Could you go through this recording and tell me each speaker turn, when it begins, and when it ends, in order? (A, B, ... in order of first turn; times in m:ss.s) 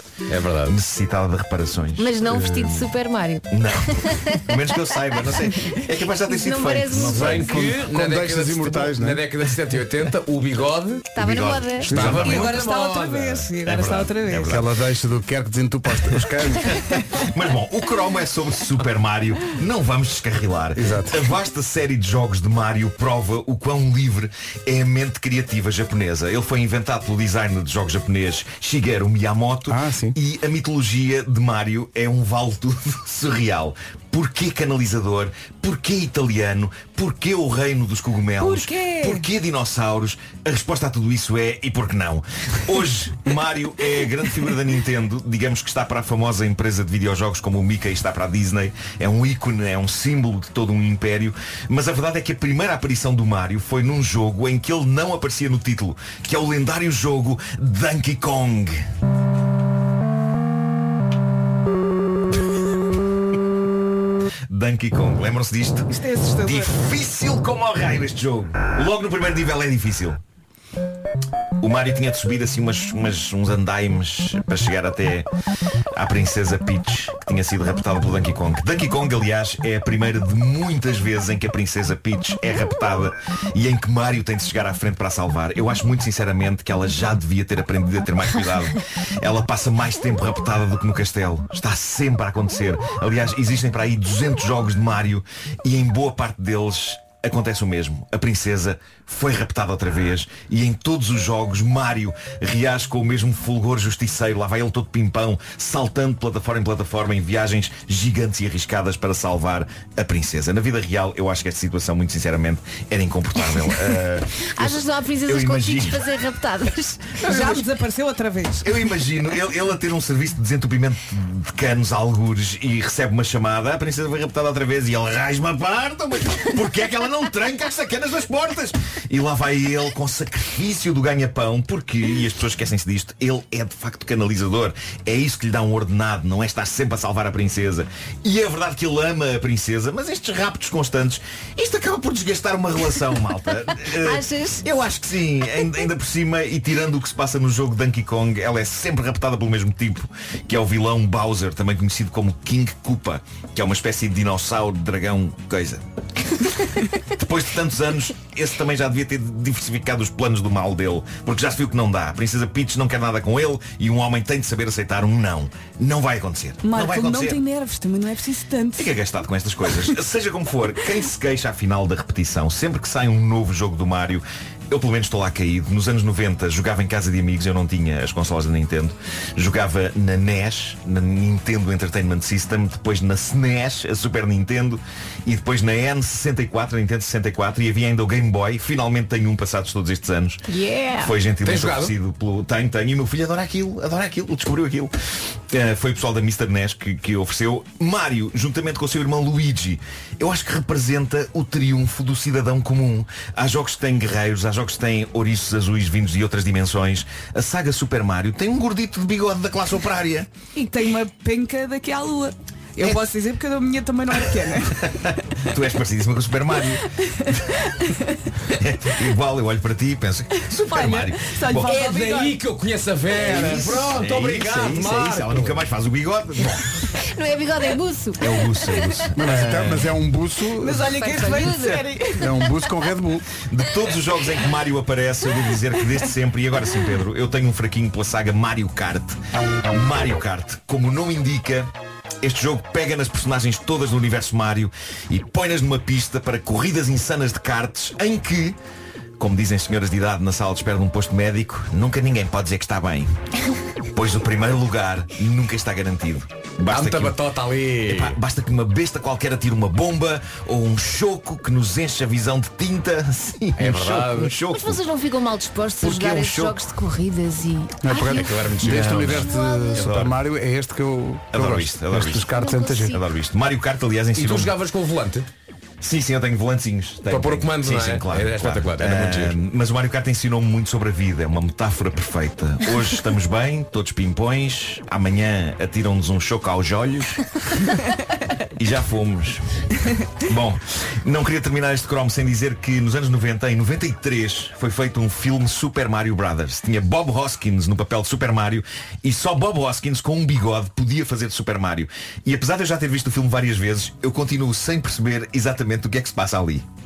0:00.3-0:00.8 A
0:00.6-0:02.9 B
0:02.0-0:04.4 C
0:03.5-0:07.5 B
0:06.3-0:07.7 C
0:07.0-0:11.1 A
0:07.0-0:09.3 D
0:11.1-0:12.0 C
0:11.2-0:12.6 B
0:11.8-0:13.5 A
0:11.9-0:12.2 D
0:12.1-0:14.5 E
0:13.6-0:14.7 B
0:14.5-0:16.8 D
0:16.7-0:58.8 B
0:20.8-0:21.3 D
0:29.7-0:30.2 D
0:38.4-0:39.3 E
1:04.5-1:10.2 B
1:05.9-1:06.8 E
1:11.6-1:15.3 B
1:15.9-1:56.0 B
1:54.5-1:57.4 C
1:57.2-1:58.7 E
1:57.3-1:57.6 B
1:58.6-2:35.8 B
2:23.9-2:24.7 C
2:37.2-2:47.4 B
2:46.6-2:48.9 E
2:48.8-3:10.5 B
3:10.5-3:11.1 C
3:11.0-3:14.9 B
3:11.4-3:11.9 A
3:15.5-3:30.3 B
3:30.6-3:35.0 E
3:34.8-3:36.8 B
3:37.3-3:38.1 E
3:38.6-3:41.7 B
3:40.5-3:42.4 E
3:41.6-3:45.7 A
3:43.1-3:46.7 B
3:46.9-3:49.1 C
3:48.2-3:49.9 B
3:49.1-3:51.0 D
3:50.6-3:52.3 E
3:50.9-3:51.9 C
3:52.2-3:53.3 D
3:53.5-3:59.2 B
3:59.7-4:01.7 B
4:02.2-4:08.6 B
4:09.2-4:13.1 B
4:13.9-4:17.2 B
4:16.7-4:18.2 A
4:17.9-4:24.8 B
4:23.6-4:24.4 A
4:24.5-4:28.5 C
4:25.8-4:26.6 B
4:27.8-4:33.0 D
4:28.0-4:29.3 A
4:29.1-4:29.9 C
4:29.8-4:30.2 B
4:31.3-4:32.4 B
4:32.3-4:33.0 C
4:32.9-4:34.6 B
4:34.1-4:35.3 A
4:35.8-4:47.2 B
4:37.0-4:39.4 A
4:48.6-4:49.4 B
4:50.2-5:06.6 B